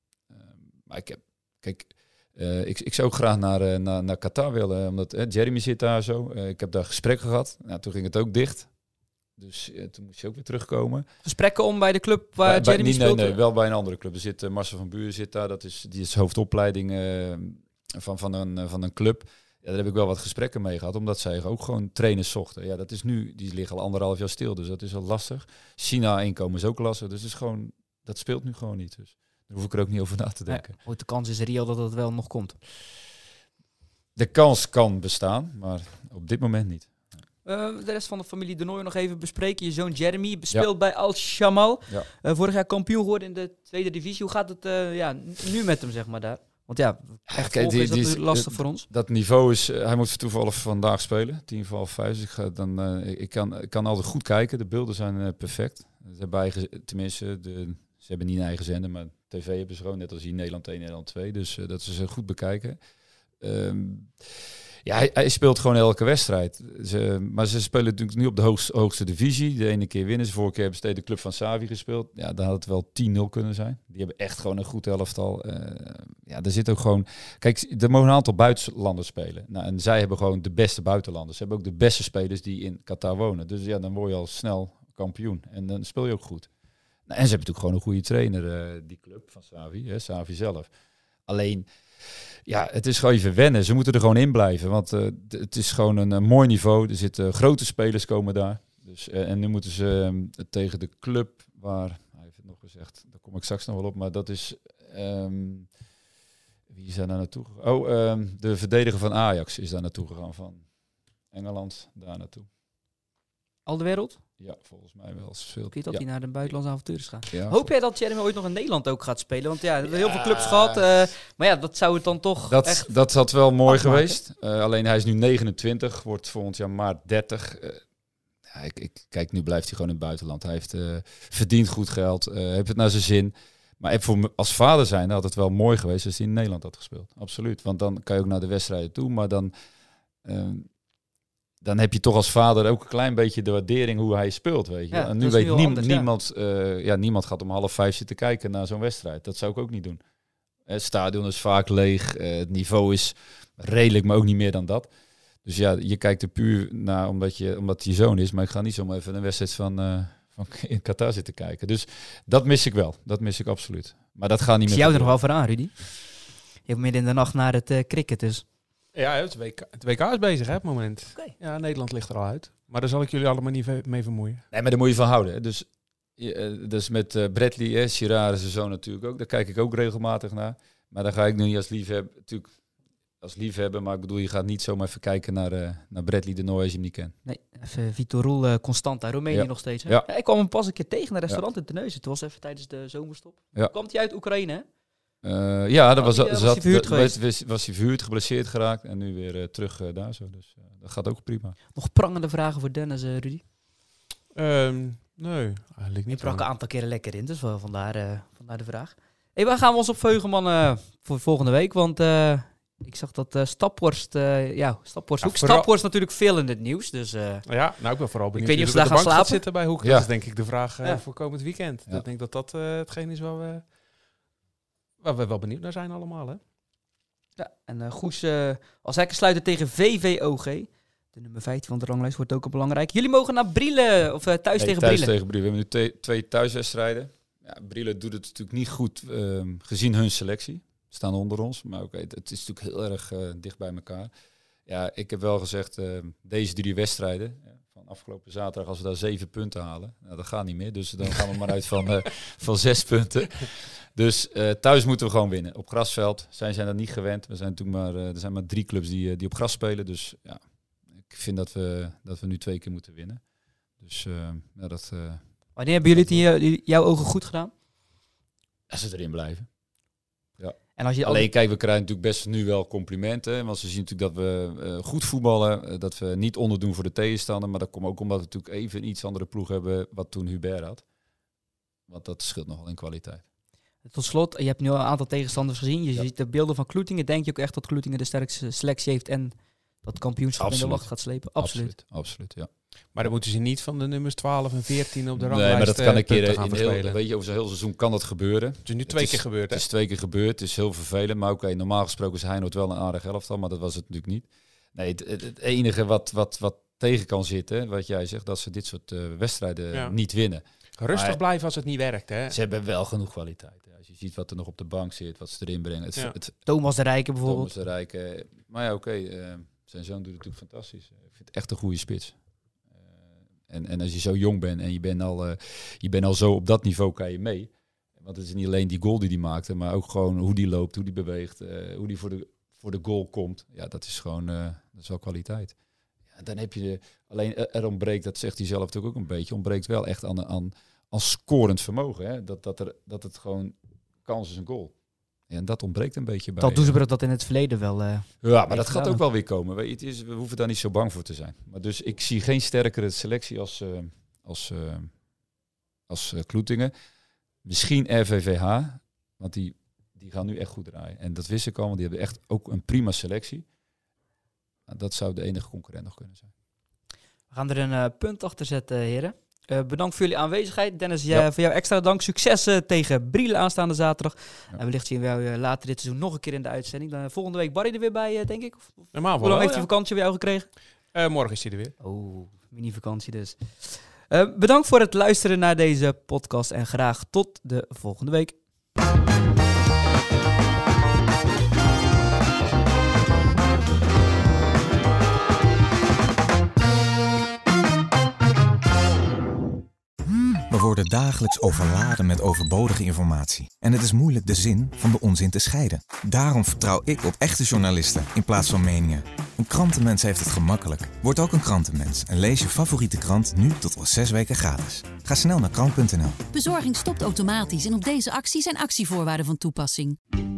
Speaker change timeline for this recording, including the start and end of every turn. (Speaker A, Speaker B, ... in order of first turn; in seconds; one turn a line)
Speaker A: 0.3-8.7
Speaker A: 9.4-11.0
Speaker B: 11.2-13.4
Speaker A: 12.4-30.7
Speaker B: 30.5-32.6
Speaker A: 34.1-36.9
Speaker B: 37.4-48.9
Speaker A: 47.3-62.8
Speaker A: 63.4-86.5
Speaker A: 87.1-90.7
Speaker A: 91.3-105.7
Speaker A: 106.7-110.6
Speaker A: 111.3-112.5
Speaker B: 113.7-114.2
Speaker A: 114.4-116.0
Speaker B: 115.7-122.9
Speaker A: 117.3-117.6
Speaker A: 119.8-120.8
Speaker A: 122.5-127.8
Speaker B: 123.7-124.2
Speaker A: 128.5-139.5
Speaker A: 140.2-140.7
Speaker A: 141.6-150.0
Speaker B: 144.9-146.1
Speaker A: 150.7-154.9
Speaker A: 155.4-165.1
Speaker B: 164.7-165.7
Speaker B: 166.7-168.4
Speaker C: 168.9-174.4
Speaker A: 174.5-182.5
Speaker A: 183.2-187.1
Speaker B: 187.2-194.6
Speaker A: 189.3-190.1
Speaker A: 195.2-201.6
Speaker B: 196.0-197.2
Speaker B: 201.7-203.4
Speaker C: 204.3-206.4
Speaker B: 206.1-217.4
Speaker C: 215.2-215.7
Speaker C: 217.5-223.6
Speaker B: 218.4-219.4
Speaker A: 219.8-220.1
Speaker C: 225.0-226.4
Speaker B: 227.4-235.1
Speaker A: 234.6-244.1
Speaker A: 244.7-260.4
Speaker A: 261.0-263.2
Speaker A: 263.8-265.2
Speaker B: 265.6-267.5
Speaker A: 265.9-266.2
Speaker A: 268.7-269.5
Speaker A: 270.4-280.8
Speaker B: 270.8-271.3
Speaker A: 281.9-283.2
Speaker B: 283.8-291.8
Speaker A: 290.4-292.5
Speaker C: 292.9-297.0
Speaker A: 295.1-311.2
Speaker C: 298.6-299.6
Speaker C: 310.8-312.4
Speaker A: 312.3-316.3
Speaker B: 316.4-317.5
Speaker A: 317.2-322.1
Speaker A: 323.5-335.5
Speaker A: 336.1-344.7
Speaker A: 345.3-346.8
Speaker B: 346.4-349.0
Speaker A: 348.2-354.9
Speaker A: 355.9-356.7
Speaker A: 357.4-363.4
Speaker A: 364.7-366.3
Speaker B: 367.3-380.5
Speaker C: 378.9-379.7
Speaker C: 380.9-381.7
Speaker B: 381.8-388.4
Speaker D: 400.5-416.2
Speaker E: 416.3-420.0